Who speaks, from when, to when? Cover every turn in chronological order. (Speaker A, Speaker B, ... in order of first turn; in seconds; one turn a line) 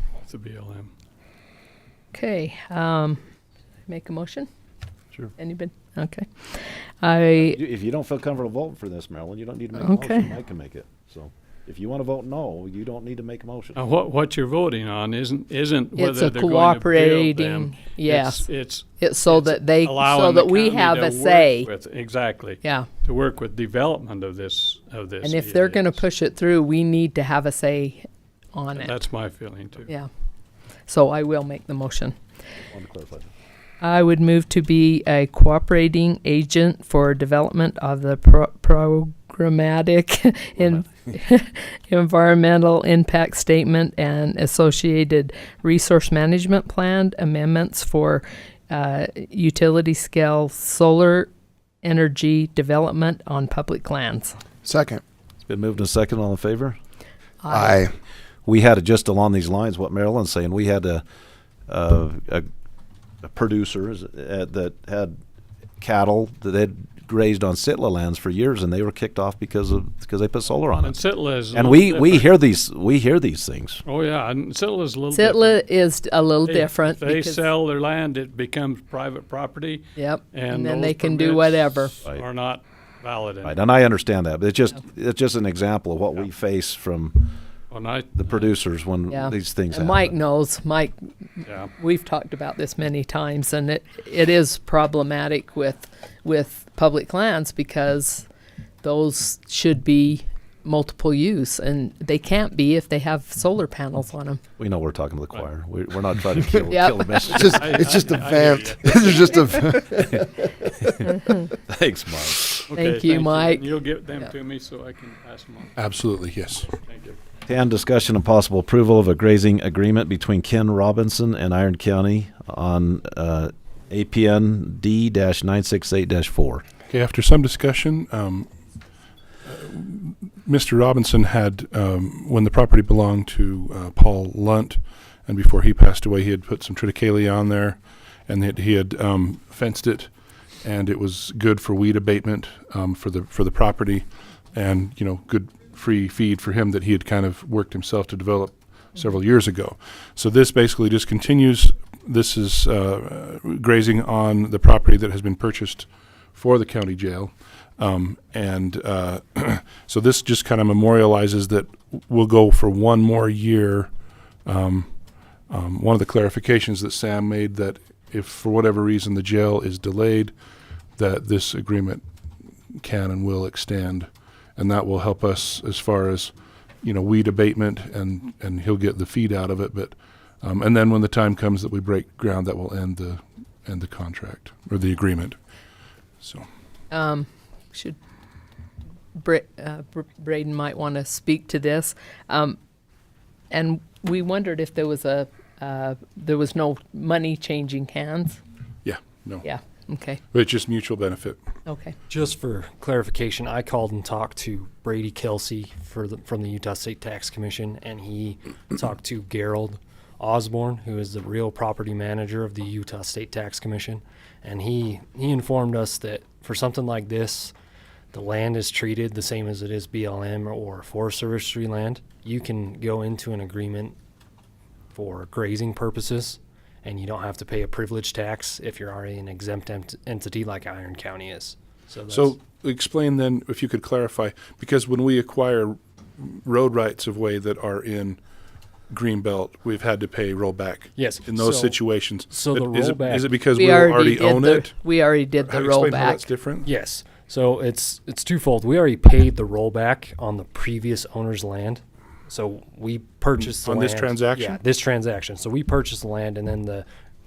Speaker A: 0.2-0.9
Speaker B: 2.1-3.2
Speaker B: 3.9-4.5
Speaker B: 5.4-7.6
Speaker C: 7.4-13.8
Speaker B: 9.8-10.3
Speaker A: 13.8-26.0
Speaker B: 16.0-21.7
Speaker B: 22.6-22.9
Speaker B: 25.2-28.9
Speaker A: 28.7-29.9
Speaker B: 30.9-32.1
Speaker C: 32.7-33.3
Speaker B: 33.8-51.3
Speaker B: 51.8-54.4
Speaker D: 54.6-55.0
Speaker C: 55.4-56.8
Speaker B: 57.4-57.8
Speaker D: 57.5-57.9
Speaker C: 58.5-61.0
Speaker C: 61.7-62.5
Speaker C: 63.2-65.2
Speaker C: 65.8-71.0
Speaker A: 70.8-72.3
Speaker C: 71.5-73.8
Speaker A: 73.8-75.6
Speaker B: 75.2-77.5
Speaker A: 76.4-83.7
Speaker B: 80.0-81.9
Speaker C: 83.4-87.4
Speaker A: 87.7-88.5
Speaker C: 88.2-90.1
Speaker B: 89.1-98.3
Speaker A: 91.4-91.7
Speaker B: 98.8-104.4
Speaker C: 104.6-107.8
Speaker B: 106.7-107.3
Speaker A: 107.3-109.6
Speaker D: 107.3-110.2
Speaker C: 110.0-112.6
Speaker A: 112.6-115.8
Speaker B: 112.8-113.7
Speaker E: 115.8-116.7
Speaker A: 116.7-117.2
Speaker C: 117.5-126.6
Speaker E: 126.9-128.5
Speaker E: 129.5-163.9
Speaker E: 164.4-170.3
Speaker E: 171.0-172.0
Speaker E: 172.8-185.4
Speaker E: 186.2-186.5
Speaker B: 186.9-188.0
Speaker B: 189.2-192.6
Speaker B: 193.5-198.4
Speaker E: 198.8-199.5
Speaker B: 199.4-200.2
Speaker E: 200.3-201.4
Speaker B: 201.7-201.9
Speaker F: 202.1-217.5
Speaker F: 218.1-224.0
Speaker F: 224.9-232.3
Speaker E: 232.1-238.2
Speaker E: 238.9-244.8
Speaker F: 240.9-243.3
Speaker B: 243.6-246.3
Speaker E: 245.4-246.7
Speaker F: 246.6-256.9
Speaker E: 253.4-254.6